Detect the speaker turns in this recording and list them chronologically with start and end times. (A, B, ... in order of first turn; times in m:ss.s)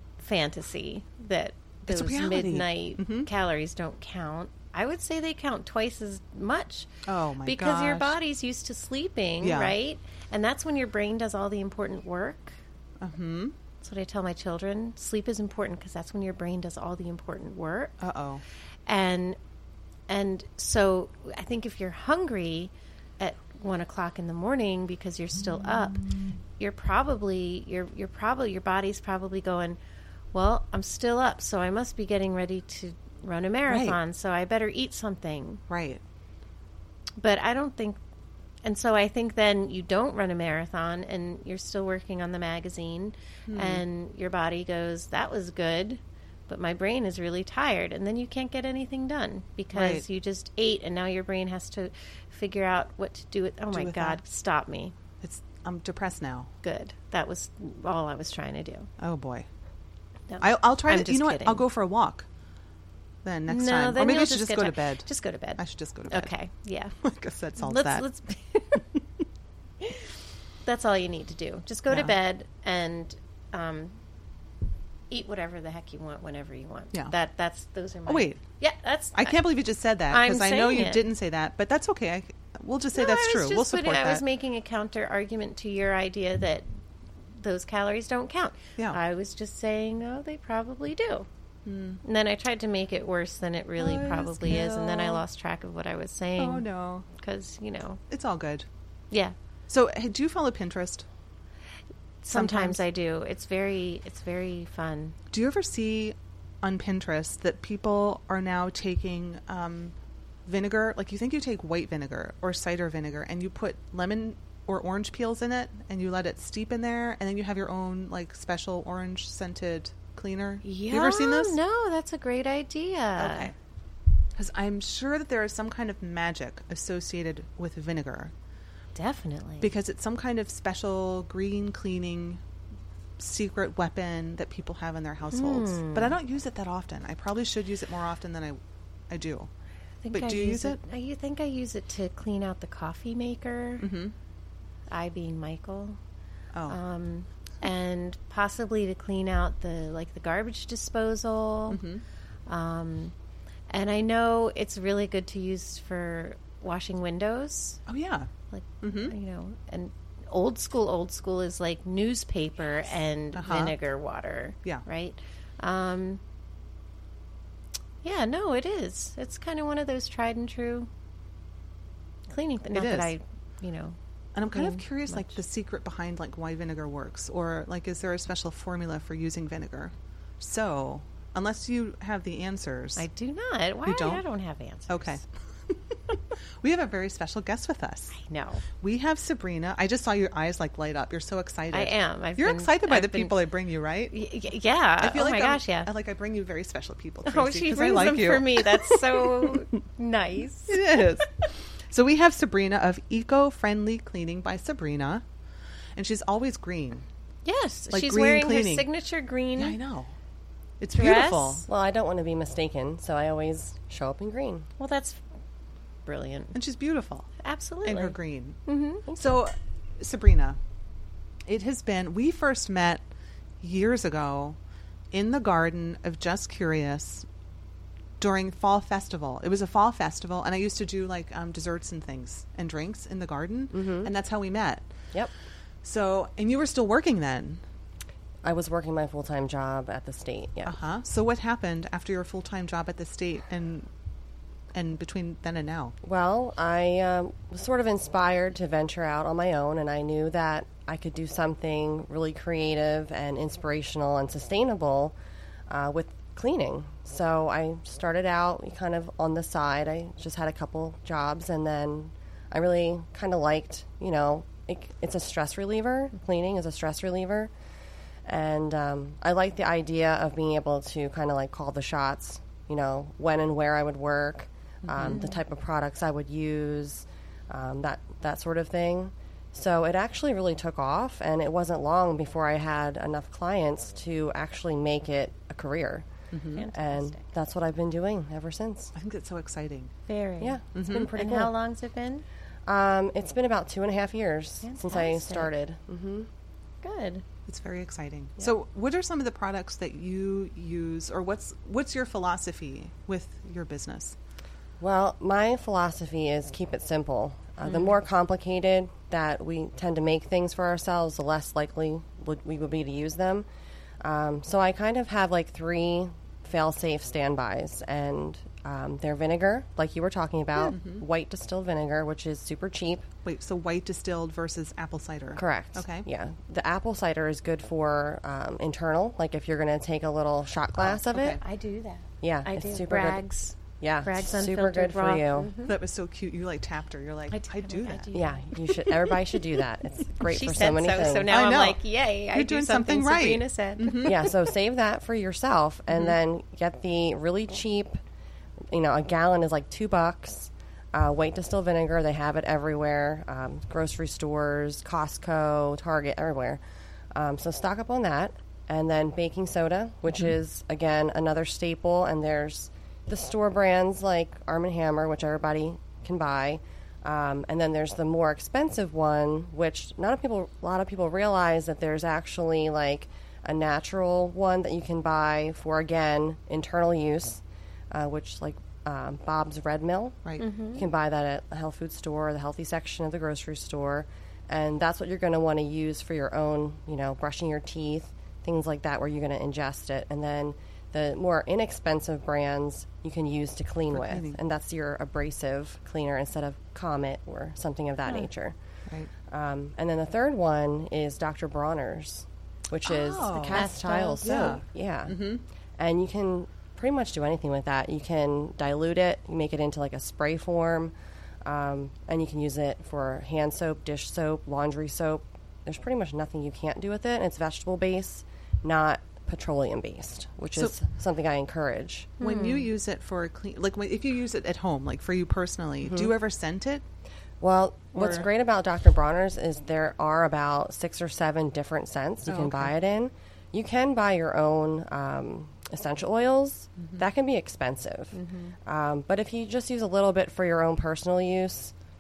0:00.2-0:06.9 A
0:01.9-0:03.3 B
0:07.1-0:08.2 B
0:07.4-0:12.5 A
0:09.4-0:09.8 B
0:13.0-0:13.6 B
0:13.8-0:18.0 A
0:18.0-0:18.4 B
0:18.9-0:19.4 A
0:20.1-0:29.8 A
0:30.3-0:35.6 A
0:33.7-0:34.0 B
0:35.7-0:36.0 B
0:37.2-0:38.0 A
0:38.6-0:55.0 A
0:43.5-0:43.8 B
0:49.7-0:50.1 B
0:53.7-0:54.2 B
0:55.2-0:56.5 B
0:56.6-0:58.9 A
0:59.0-0:59.5 B
1:00.3-1:01.6 A
1:00.4-1:02.3 B
1:03.2-1:06.3 B
1:03.5-1:07.0 A
1:07.0-1:08.1 B
1:07.6-1:08.8 A
1:09.8-1:10.1 A
1:10.6-1:14.0 A
1:11.9-1:12.2 B
1:15.1-1:19.4 A
1:18.1-1:18.4 B
1:19.2-1:24.2 B
1:20.1-1:21.0 A
1:23.0-1:26.7 A
1:27.4-1:31.3 A
1:31.7-1:32.0 B
1:32.0-1:38.0 A
1:33.8-1:35.2 B
1:36.4-1:37.1 B
1:38.1-1:38.7 B
1:39.7-1:41.1 B
1:42.2-1:45.2 A
1:42.3-1:42.8 B
1:45.3-1:49.9 B
1:50.5-2:01.6 B
2:00.6-2:03.5 A
2:03.2-2:03.5 B
2:04.4-2:08.3 B
2:09.0-2:09.7 A
2:09.6-2:12.4 B
2:13.2-2:19.5 B
2:15.4-2:16.2 A
2:20.0-2:23.8 A
2:20.1-2:20.8 B
2:23.8-2:24.1 B
2:24.9-2:26.0 A
2:26.7-2:31.8 A
2:31.7-2:32.0 B
2:32.5-2:33.1 A
2:33.7-2:37.8 A
2:37.9-2:39.2 B
2:38.5-2:46.2 A
2:43.3-2:43.8 B
2:48.0-2:50.9 A
2:52.3-2:54.0 A
2:52.7-2:53.1 B
2:54.4-3:03.1 B
2:54.5-2:55.4 A
3:03.0-3:05.2 A
3:03.9-3:04.2 B
3:04.9-3:08.2 B
3:08.2-3:08.6 A
3:08.8-3:14.1 B
3:11.7-3:13.4 A
3:14.1-3:15.9 A
3:15.0-3:19.6 B
3:17.3-3:21.5 A
3:20.7-3:21.3 B
3:21.9-3:25.2 B
3:26.0-3:27.0 B
3:27.4-3:29.8 A
3:27.9-3:28.9 B
3:29.6-3:30.2 B
3:30.8-3:31.7 B
3:30.9-3:31.6 A
3:31.7-3:34.7 C
3:34.8-3:35.2 A
3:36.1-3:36.6 A
3:36.5-3:37.3 B
3:37.4-3:39.1 A
3:37.8-3:38.6 B
3:39.1-3:40.6 B
3:41.5-3:43.1 B
3:43.6-3:44.6 B
3:45.1-3:47.3 B
3:48.2-3:54.9 B
3:53.7-3:54.1 C
3:55.8-3:57.6 B
3:58.4-4:00.7 C
4:00.7-4:03.9 B
4:04.7-4:06.0 B
4:06.0-4:15.2 C
4:15.7-4:27.5 C
4:28.2-4:46.1 C
4:34.8-4:35.3 B
4:35.1-4:35.4 A
4:46.3-4:46.6 B
4:46.6-4:47.2 A
4:46.7-4:48.9 C
4:49.0-4:49.9 B
4:50.1-4:50.6 A
4:50.4-4:51.5 C
4:50.8-4:51.1 B
4:51.1-4:52.2 A
4:52.7-4:56.3 C
4:54.6-4:55.5 A
4:56.8-4:57.2 A
4:57.5-5:04.2 B
5:04.8-5:13.5 C
5:14.0-5:23.1 C
5:20.7-5:21.0 B
5:23.2-5:26.1 B
5:25.4-5:31.4 C
5:30.8-5:31.4 B
5:31.4-5:35.8 A
5:32.2-5:33.2 C
5:33.8-5:35.5 C
5:35.6-5:38.1 B
5:37.3-5:39.2 A
5:38.1-5:41.3 C
5:40.2-5:44.3 A
5:41.3-5:41.8 B
5:42.3-5:44.3 B
5:44.0-5:48.0 C
5:45.9-5:46.2 B
5:48.7-5:56.6 C
5:57.1-6:20.2 C
6:20.4-6:20.9 A
6:20.7-6:38.6 C
6:33.9-6:34.4 B
6:39.3-6:45.2 C
6:42.9-6:45.4 B
6:43.5-6:44.6 A
6:45.8-7:02.2 C
7:02.2-7:02.7 A
7:02.2-7:06.8 B
7:05.8-7:06.1 C
7:07.4-7:21.7 C
7:07.9-7:08.3 B
7:12.3-7:12.7 B
7:18.1-7:18.6 A